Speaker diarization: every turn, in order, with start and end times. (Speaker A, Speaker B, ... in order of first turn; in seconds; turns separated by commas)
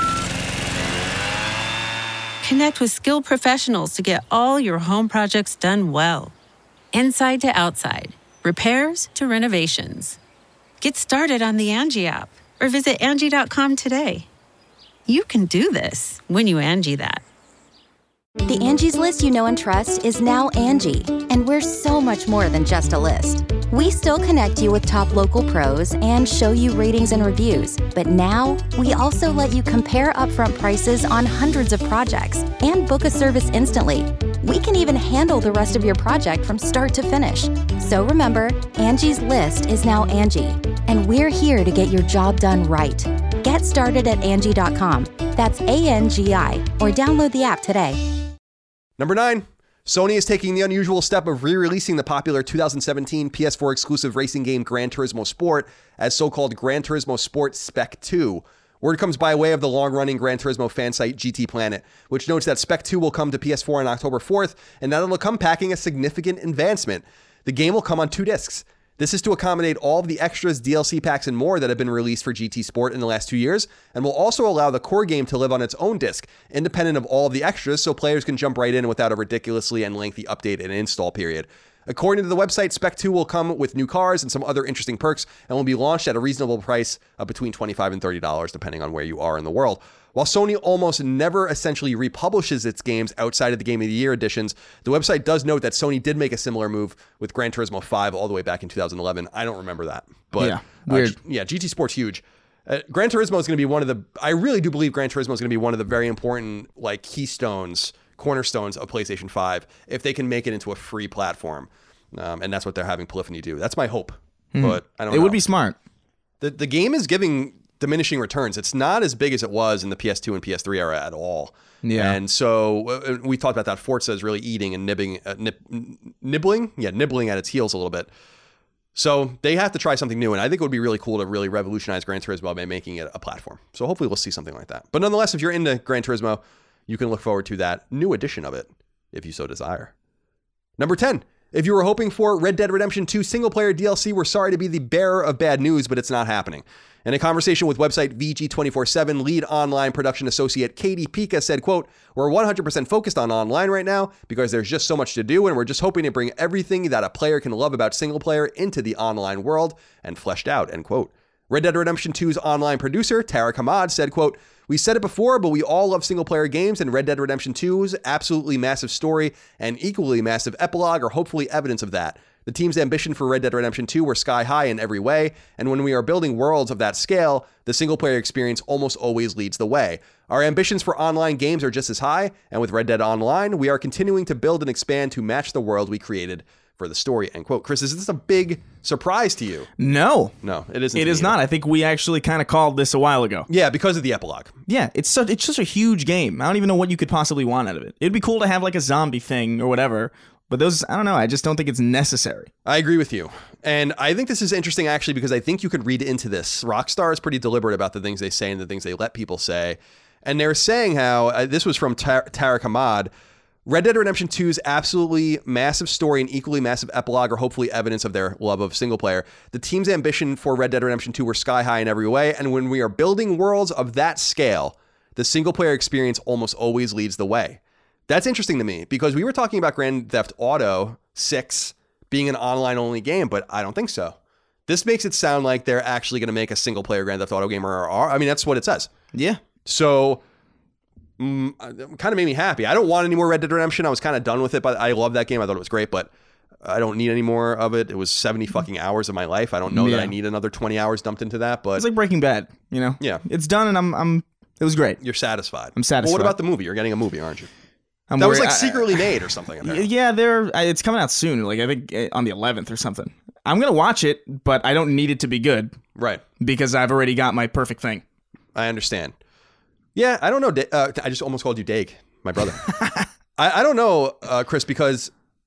Speaker A: 2.4-6.3, Speaker A: 6.9-10.2, Speaker A: 10.8-14.3, Speaker A: 15.1-17.2, Speaker B: 18.4-48.0, Speaker C: 49.0-115.4, Speaker D: 100.4-101.2, Speaker D: 114.5-115.8, Speaker C: 116.4-128.1, Speaker D: 121.8-122.2, Speaker C: 128.9-139.9, Speaker C: 140.8-189.7, Speaker D: 189.8-190.4, Speaker C: 190.4-191.4, Speaker D: 190.9-193.5, Speaker C: 193.5-194.6, Speaker D: 194.7-202.5, Speaker C: 202.7-213.1, Speaker C: 213.7-238.9, Speaker D: 239.1-239.4, Speaker C: 239.7-240.2, Speaker C: 241.2-246.1, Speaker C: 246.6-251.9, Speaker D: 249.7-250.2, Speaker D: 251.8-255.0, Speaker C: 255.0-257.5, Speaker D: 255.8-256.4, Speaker D: 258.1-259.1, Speaker C: 258.2-259.9, Speaker D: 259.6-265.8, Speaker C: 266.0-266.2, Speaker D: 266.4-268.0, Speaker C: 268.6-269.1, Speaker C: 269.9-272.6, Speaker D: 272.7-273.1, Speaker C: 273.4-275.1